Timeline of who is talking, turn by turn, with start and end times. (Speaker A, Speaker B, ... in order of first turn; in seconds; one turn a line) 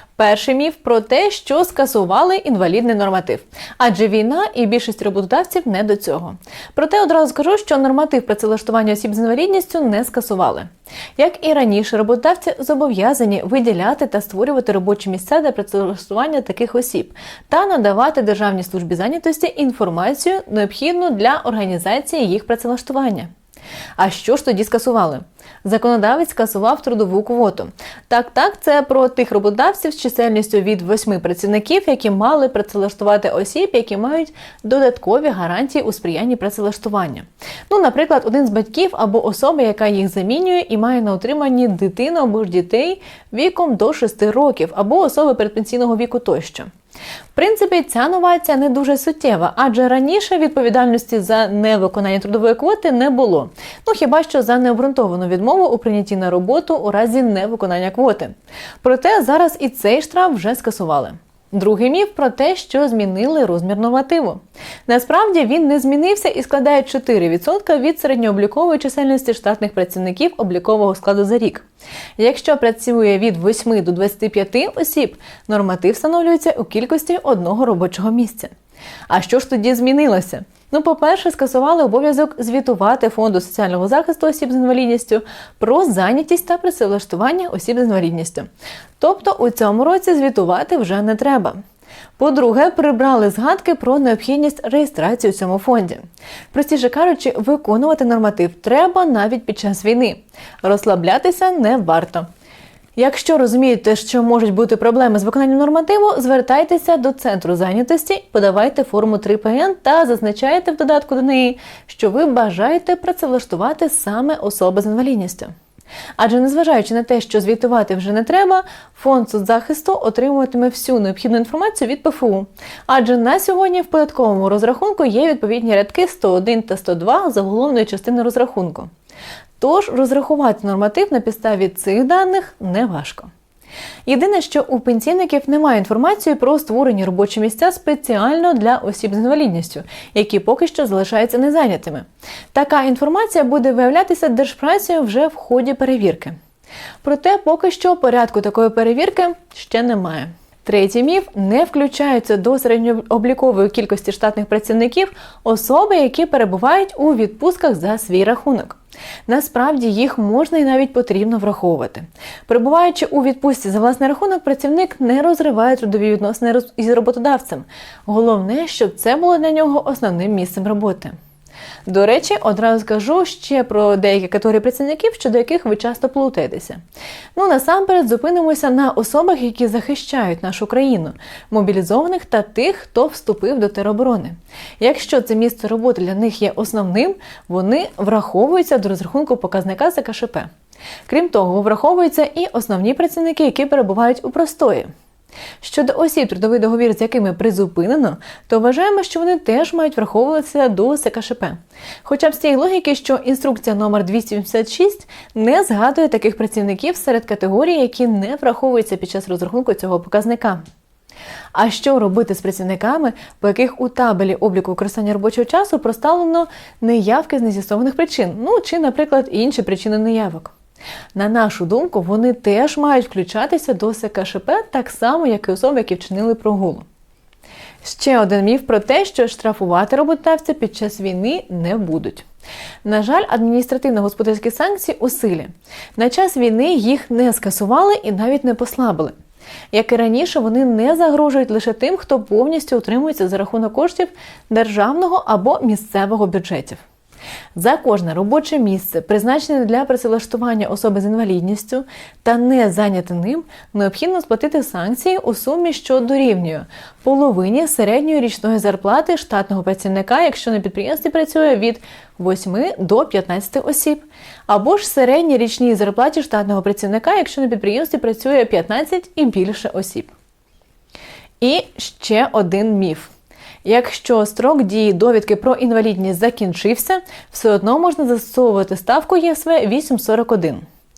Speaker A: 0.2-23.3
Speaker A: 24.0-46.7
Speaker A: 47.3-71.7
Speaker A: 72.2-78.5
Speaker A: 79.1-88.5
Speaker A: 89.0-91.6
Speaker A: 92.2-102.3
Speaker A: 103.0-115.5
Speaker A: 116.2-128.9
Speaker A: 129.6-133.3
Speaker A: 134.1-146.4
Speaker A: 147.0-171.2
Speaker A: 171.9-176.8
Speaker A: 177.3-190.5
Speaker A: 191.1-194.9
Speaker A: 195.6-210.6
Speaker A: 211.6-220.5
Speaker A: 221.2-226.8
Speaker A: 227.8-232.2
Speaker A: 232.8-239.1
Speaker A: 239.7-246.8
Speaker A: 247.5-270.1
Speaker A: 271.4-273.1
Speaker A: 273.6-280.6